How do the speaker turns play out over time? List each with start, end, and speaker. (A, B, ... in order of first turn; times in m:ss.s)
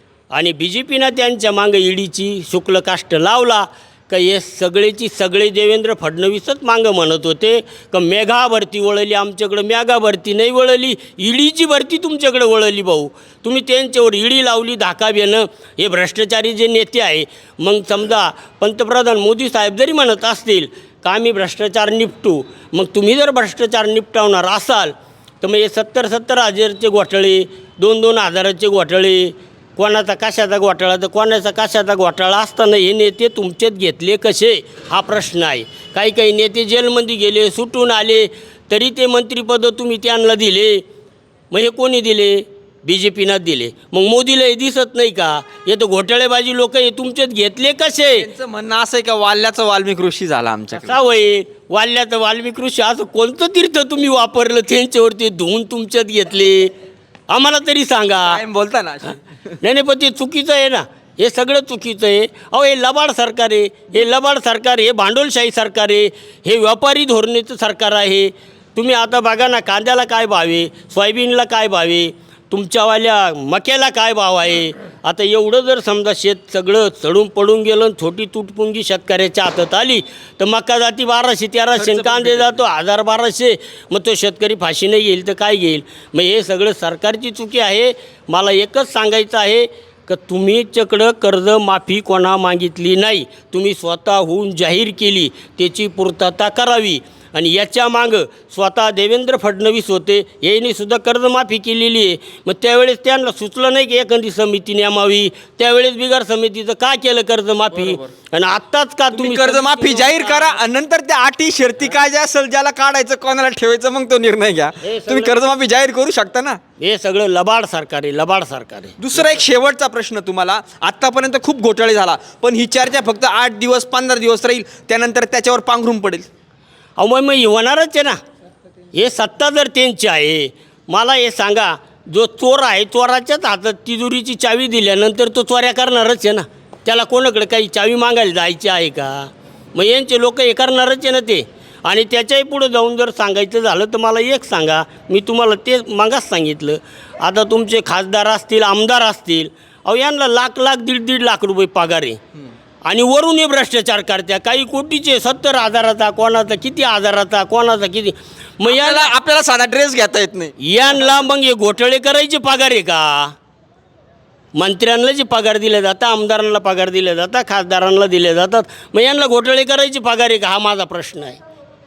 0:00.3-0:40.8 A
0:41.5-0:48.3 A
0:48.2-0:51.0 B
0:50.7-0:56.7 A
0:57.3-0:58.4 A
0:58.2-0:59.2 B
0:59.6-1:50.6 A
1:21.8-1:22.6 B
1:49.1-1:56.6 B
1:54.8-1:55.5 A
1:56.8-1:59.0 A
1:59.0-2:06.3 B
2:07.0-2:08.2 A
2:08.9-2:32.2 A
2:32.8-2:39.1 A
2:38.6-2:40.5 B
2:40.6-2:43.3 A
2:44.5-2:51.4 A